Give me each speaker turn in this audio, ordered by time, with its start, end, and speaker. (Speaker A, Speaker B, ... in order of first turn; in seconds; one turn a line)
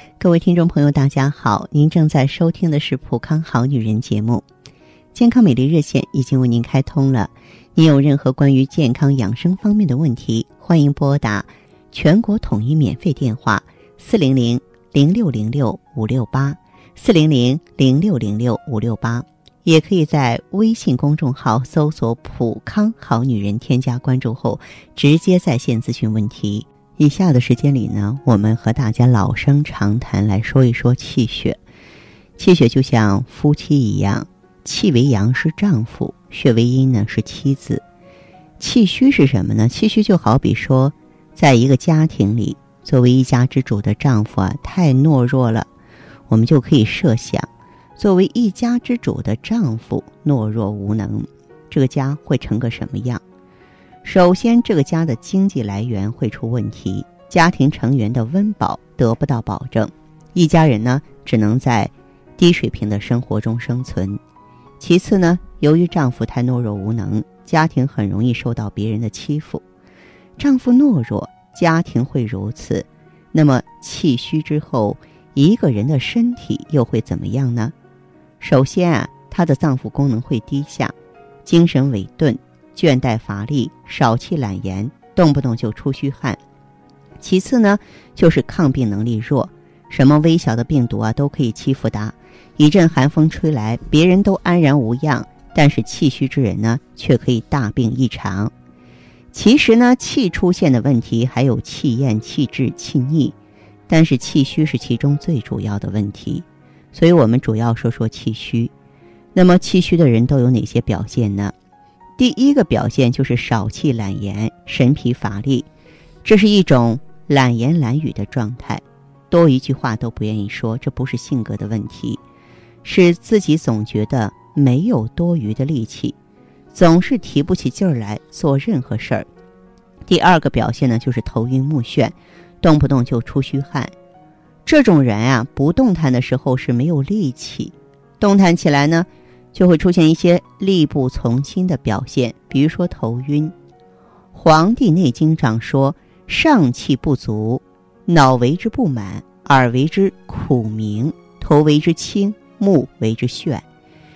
Speaker A: 0.2-4.4
Speaker A: 5.1-31.6
Speaker A: 32.4-37.8
Speaker A: 38.6-45.7
Speaker A: 46.3-53.2
Speaker A: 54.0-64.2
Speaker A: 64.8-69.6
Speaker A: 70.4-77.7
Speaker A: 78.4-80.9
Speaker A: 81.4-86.4
Speaker A: 87.2-98.5
Speaker A: 99.3-103.3
Speaker A: 103.9-108.7
Speaker A: 109.3-111.5
Speaker A: 112.2-115.7
Speaker A: 116.2-122.2
Speaker A: 122.8-126.1
Speaker A: 126.7-129.3
Speaker A: 130.1-133.9
Speaker A: 134.6-143.5
Speaker A: 144.3-153.6